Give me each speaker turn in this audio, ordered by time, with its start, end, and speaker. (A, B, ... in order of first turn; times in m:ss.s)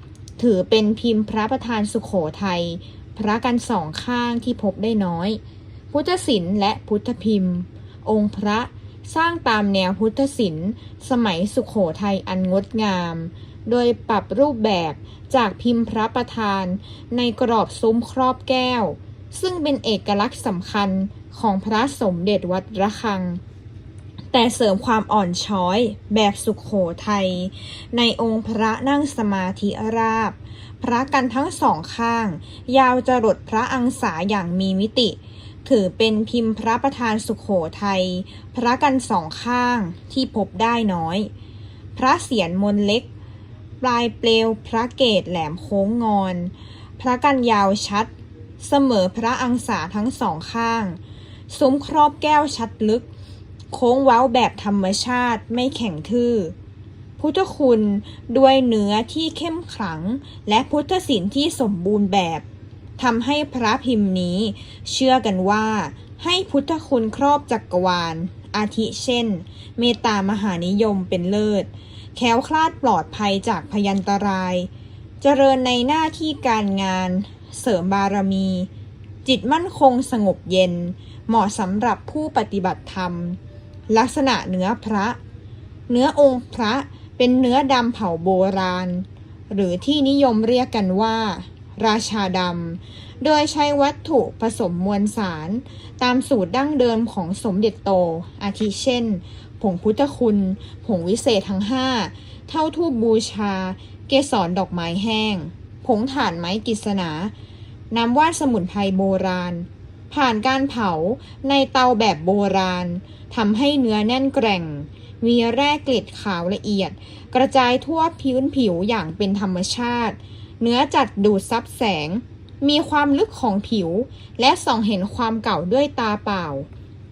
0:00.4-0:23.4 A
0:24.3-0:41.3 A
0:41.9-0:43.1 A
0:43.8-0:53.1 A
0:53.7-0:56.5 A
0:57.2-1:02.4 A
1:03.0-1:14.7 A
1:15.2-1:18.7 A
1:19.2-1:23.4 A
1:23.9-1:25.2 A
1:25.9-1:47.3 A
1:47.9-2:06.7 A